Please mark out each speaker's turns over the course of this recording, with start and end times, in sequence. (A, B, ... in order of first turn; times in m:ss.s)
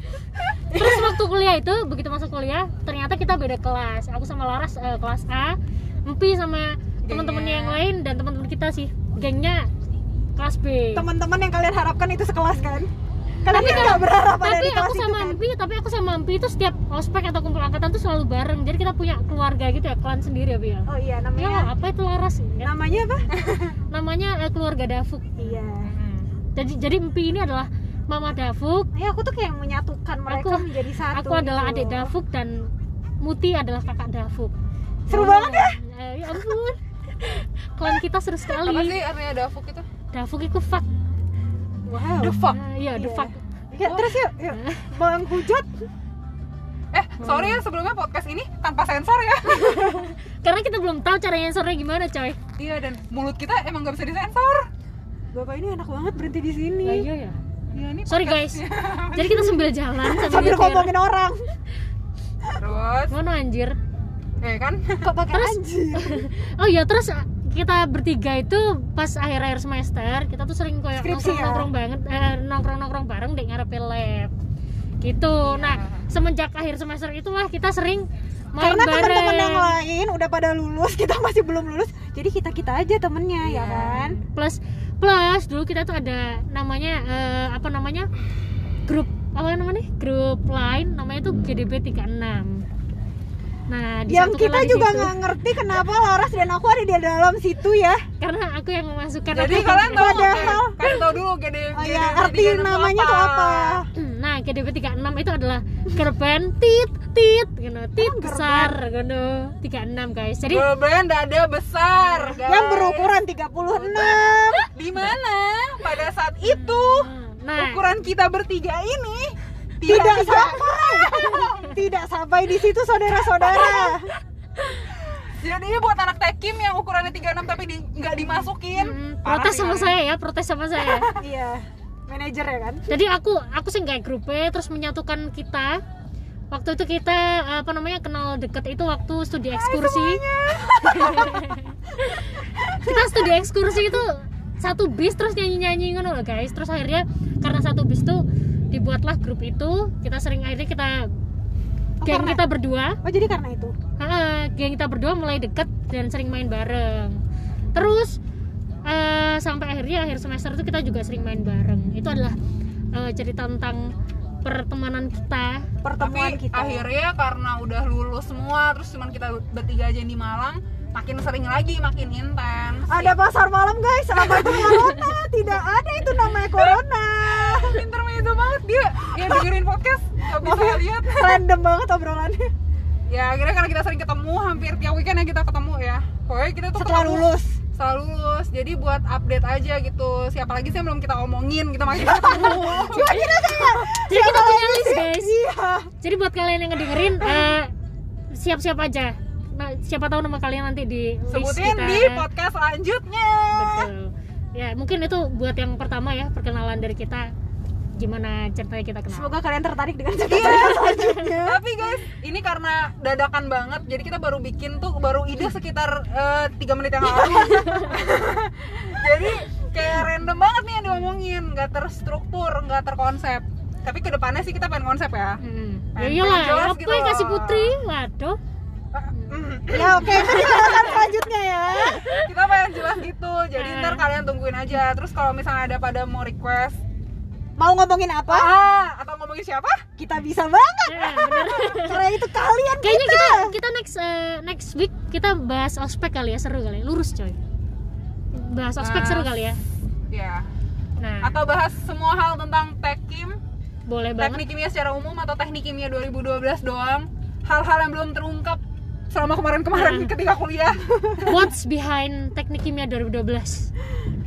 0:00.2-0:01.1 A
0:00.7-0:09.7 B
0:07.0-0:07.8 A
0:10.4-0:11.0 B
0:10.9-0:12.9 C
0:13.4-0:15.4 C
0:13.4-0:22.7 B
0:20.8-0:21.7 C
0:22.6-0:23.7 C
0:23.9-0:25.3 B
0:25.4-0:25.9 C
0:25.9-0:26.3 A
0:26.5-0:28.9 B
0:28.9-0:32.1 C
0:30.3-0:34.5 B
0:35.1-0:35.8 C
0:35.1-0:39.0 B
0:38.5-0:39.8 A
0:40.1-0:40.9 B
0:41.8-0:42.4 C
0:42.2-0:42.6 A
0:42.4-0:43.4 B
0:42.9-0:45.7 C
0:43.8-0:44.2 A
0:44.5-0:45.0 B
0:46.9-0:50.0 A
0:47.2-0:47.6 B
0:49.5-0:52.4 B
0:52.6-0:54.7 A
0:55.3-0:57.1 C
0:56.8-0:57.4 B
0:57.7-0:59.7 A
0:58.1-1:01.0 B
1:00.0-1:01.4 C
1:02.5-1:03.1 A
1:03.1-1:03.8 B
1:04.4-1:05.1 A
1:05.0-1:06.3 C
1:05.3-1:14.3 B
1:11.0-1:11.7 C
1:15.0-1:19.8 B
1:15.4-1:16.1 A
1:18.6-1:24.2 C
1:23.4-1:24.2 A
1:24.3-1:28.1 B
1:28.8-1:32.6 B
1:33.7-1:35.2 B
1:34.1-1:38.0 C
1:38.2-1:40.6 B
1:39.3-1:43.8 A
1:39.5-1:40.8 C
1:41.7-1:43.9 C
1:43.9-1:50.7 B
1:48.0-1:48.8 C
1:50.5-1:53.1 A
1:52.0-1:52.4 B
1:52.4-1:54.7 C
1:53.7-2:01.8 A
1:56.6-1:57.8 B
1:59.8-2:04.1 C
2:03.6-2:03.8 A
2:05.0-2:10.0 A
2:08.7-2:11.1 B
2:10.9-2:12.8 C
2:12.9-2:15.8 B
2:16.5-2:20.2 B
2:19.5-2:21.6 C
2:20.8-2:31.1 B
2:22.3-2:23.3 C
2:32.0-2:32.4 C
2:32.0-2:33.0 B
2:33.0-2:33.7 C
2:34.0-2:37.2 B
2:37.7-2:38.2 B
2:38.8-2:42.4 B
2:42.9-2:45.6 B
2:45.8-2:46.9 C
2:46.0-2:53.2 A
2:52.9-2:57.8 C
2:54.2-2:54.9 A
2:56.5-3:01.4 A
2:59.1-2:59.5 C
3:00.4-3:02.5 C
3:03.1-3:13.3 A
3:06.7-3:07.6 C
3:12.1-3:15.9 C
3:12.4-3:15.3 B
3:16.0-3:17.7 B
3:17.2-3:17.6 C
3:18.3-3:22.2 B
3:21.3-3:23.9 A
3:23.5-3:27.3 B
3:27.9-3:29.3 B
3:29.1-3:32.0 C
3:30.2-3:45.4 A
3:30.6-3:31.0 B
3:37.0-3:38.0 C
3:45.4-3:48.4 B
3:45.9-3:47.8 A
3:48.9-3:51.0 A
3:49.7-3:52.2 C
3:51.9-3:52.3 B
3:52.1-3:56.8 A
3:53.6-3:54.0 B
3:57.6-3:58.6 C
3:58.3-3:59.8 A
4:00.0-4:03.6 C
4:00.9-4:02.1 B
4:02.8-4:07.4 B
4:08.3-4:09.6 B
4:08.8-4:09.4 A
4:10.1-4:10.4 A
4:11.0-4:11.4 B
4:11.2-4:13.4 A
4:13.9-4:14.4 B
4:14.2-4:21.5 A
4:19.7-4:20.1 B
4:21.2-4:23.7 B